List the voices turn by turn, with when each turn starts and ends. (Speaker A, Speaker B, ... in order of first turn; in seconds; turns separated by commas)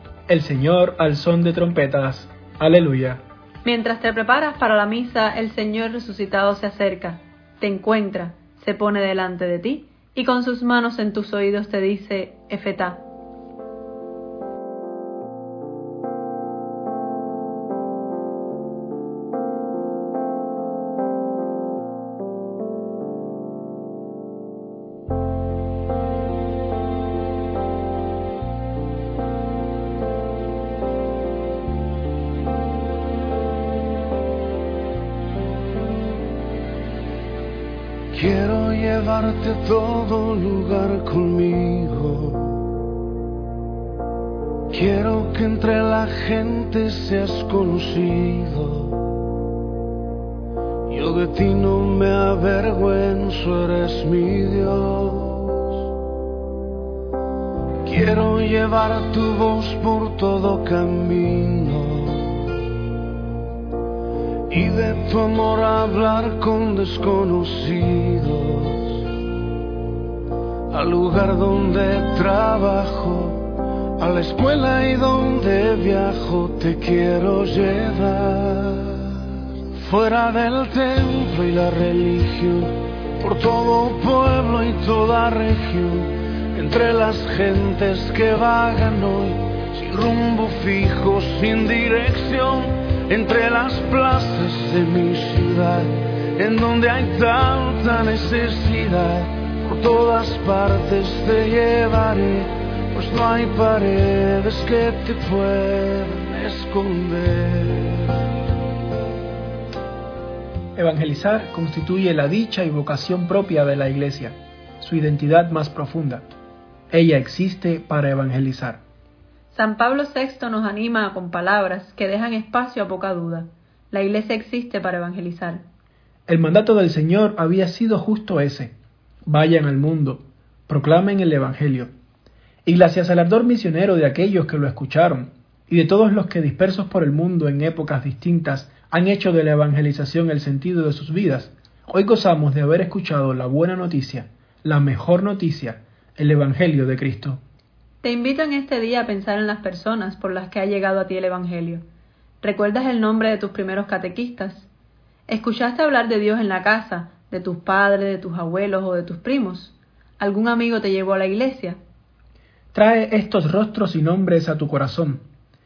Speaker A: 0.3-3.2, Speaker B: 3.6-13.0, Speaker C: 38.1-42.7, Speaker C: 44.7-49.1, Speaker C: 50.9-55.7, Speaker C: 57.8-62.6, Speaker C: 64.5-69.1, Speaker C: 70.7-108.2, Speaker A: 110.8-116.2, Speaker A: 116.9-118.8, Speaker B: 119.5-125.6, Speaker A: 126.3-128.7, Speaker A: 129.2-131.9, Speaker A: 132.6-147.4, Speaker B: 148.0-151.8, Speaker B: 152.4-154.7, Speaker B: 155.3-161.8, Speaker A: 162.7-165.2